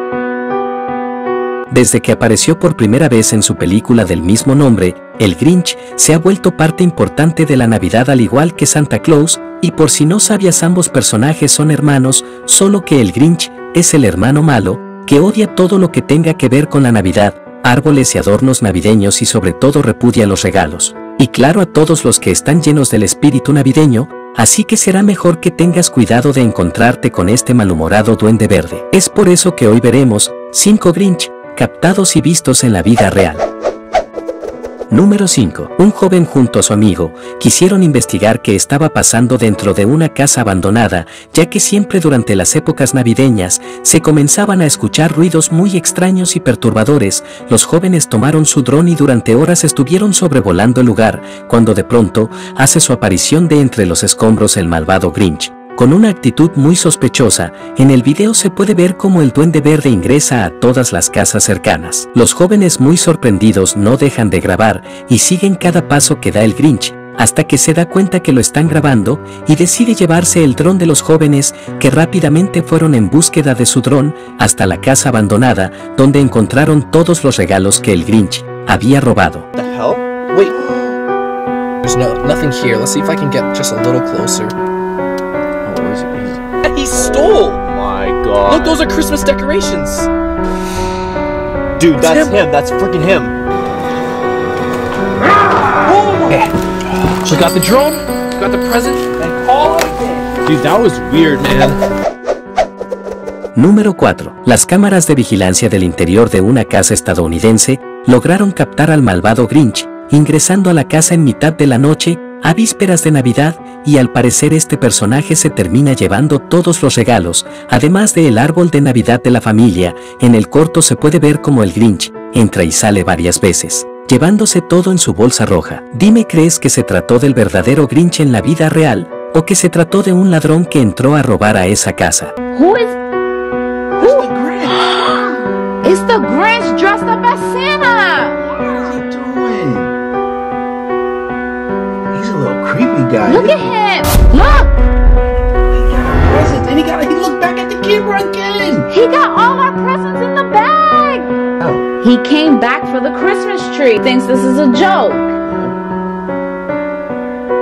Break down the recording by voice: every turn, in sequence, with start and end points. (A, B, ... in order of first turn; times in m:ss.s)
0:01.7-0:33.5 A
0:34.9-1:19.5 A
1:19.6-1:20.5 B
1:21.8-1:24.6 C
1:25.6-1:27.2 C
1:26.6-1:29.8 B
1:28.4-1:30.1 C
1:31.8-1:33.4 B
1:31.8-1:32.4 C
1:35.9-1:36.5 B
1:37.2-1:39.3 C
1:40.4-1:41.7 B
1:43.6-2:12.3 A
2:12.5-2:13.0 D
2:13.9-2:14.9 E
2:14.0-2:18.4 D
2:18.6-2:20.0 E
2:22.1-2:23.7 E
2:23.3-2:24.8 D
2:25.7-2:28.9 E
2:28.9-2:31.3 D
2:32.0-2:35.4 D
2:35.4-2:35.7 E